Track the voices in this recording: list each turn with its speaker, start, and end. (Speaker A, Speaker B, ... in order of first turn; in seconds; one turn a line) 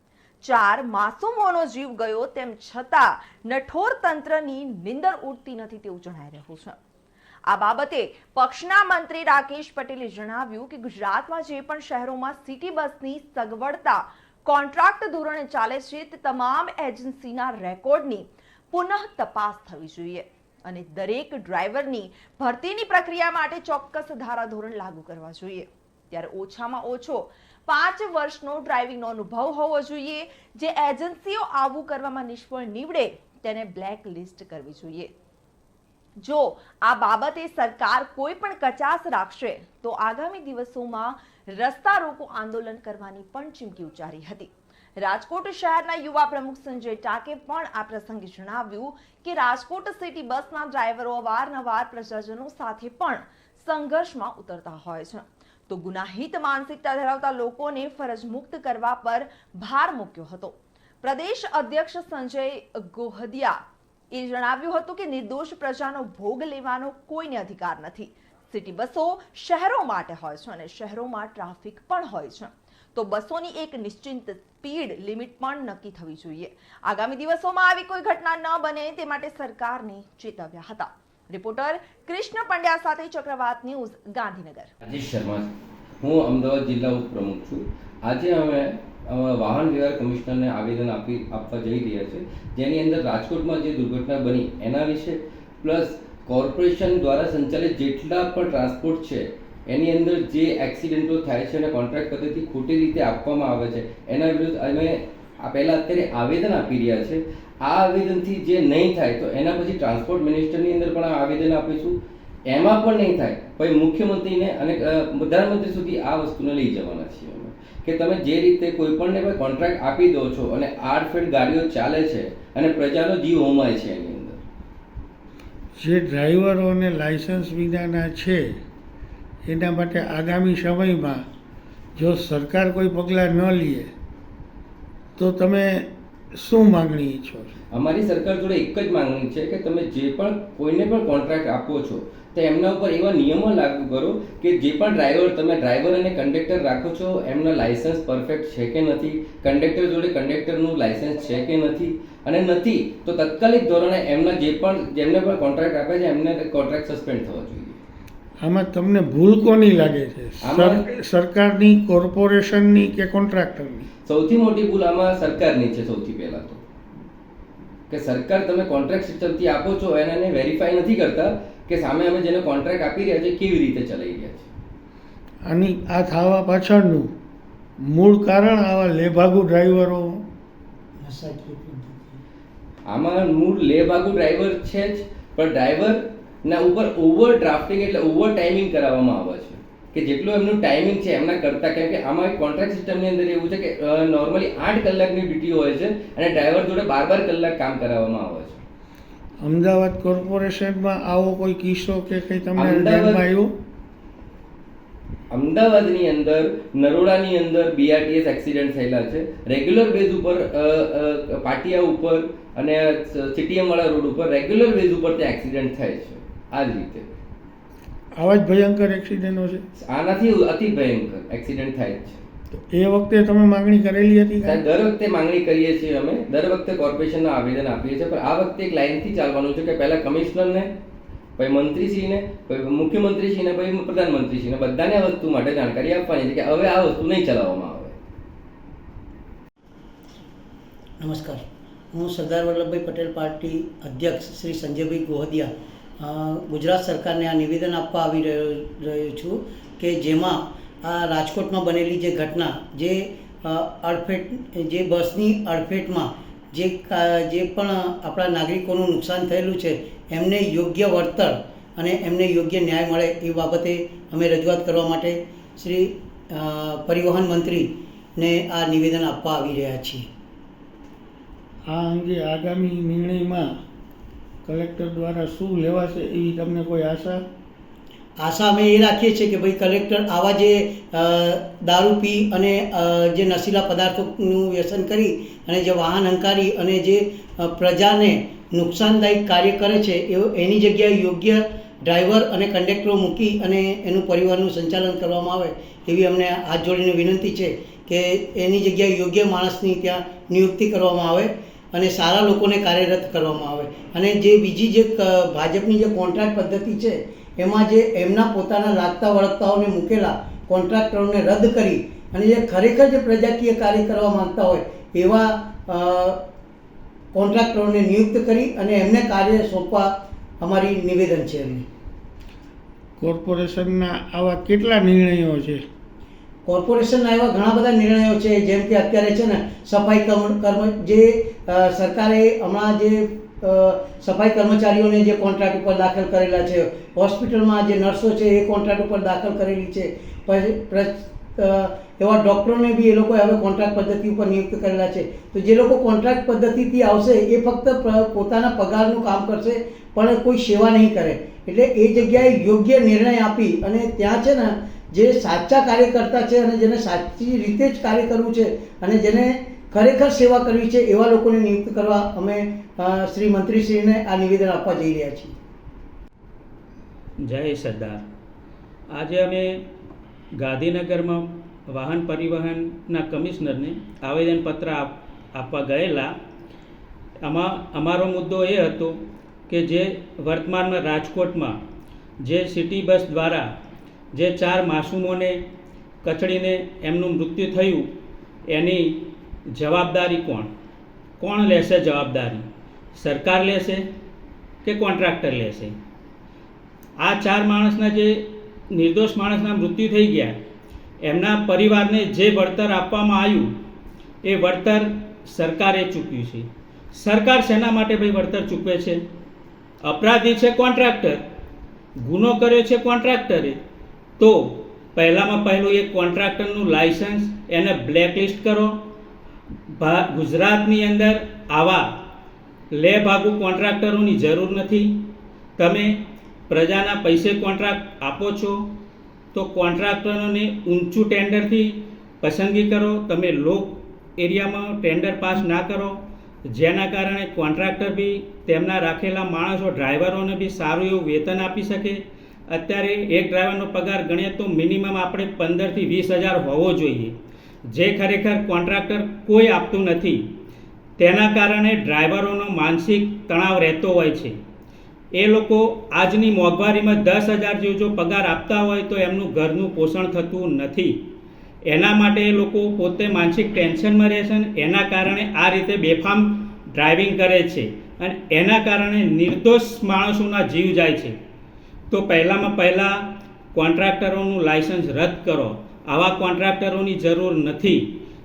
Speaker A: 0.4-6.8
Speaker A: 7.5-35.1
Speaker A: 36.2-63.6
Speaker A: 64.1-84.7
Speaker B: 84.8-112.0
Speaker B: 112.5-124.4
Speaker C: 125.8-128.4
Speaker C: 129.5-131.2
Speaker C: 131.9-133.9
Speaker C: 135.2-137.5
Speaker B: 137.7-157.8
Speaker C: 158.4-163.9
Speaker B: 160.4-160.8
Speaker B: 164.1-166.6
Speaker B: 167.9-174.5
Speaker C: 175.5-177.1
Speaker C: 177.9-180.2
Speaker D: 181.0-182.2
Speaker B: 182.9-198.6
Speaker C: 199.4-203.5
Speaker B: 202.6-203.3
Speaker B: 205.3-217.1
Speaker C: 218.2-219.6
Speaker B: 219.8-222.2
Speaker C: 222.7-224.6
Speaker B: 224.4-230.7
Speaker B: 231.4-237.9
Speaker D: 241.0-270.0
Speaker C: 271.7-273.5
Speaker C: 274.4-277.2
Speaker D: 278.2-316.2
Speaker D: 317.1-321.6
Speaker C: 323.0-325.6
Speaker D: 326.4-365.4
Speaker E: 367.2-368.0
Speaker E: 368.9-369.6
Speaker E: 370.4-376.1
Speaker E: 377.2-381.6
Speaker E: 382.2-383.5
Speaker E: 384.1-385.4
Speaker E: 386.0-387.9
Speaker E: 388.5-389.0
Speaker E: 389.5-390.5
Speaker E: 391.2-393.8
Speaker E: 394.6-395.7
Speaker E: 397.0-400.4
Speaker E: 401.0-403.5
Speaker E: 404.2-409.0
Speaker E: 409.8-411.2
Speaker E: 412.0-413.6
Speaker E: 414.2-418.7
Speaker E: 419.8-421.9
Speaker E: 422.7-428.6
Speaker E: 429.3-436.0
Speaker E: 436.5-447.1
Speaker E: 447.7-450.3
Speaker E: 451.0-454.4
Speaker E: 455.2-461.0
Speaker E: 461.7-471.1
Speaker E: 471.9-473.0
Speaker E: 473.5-477.9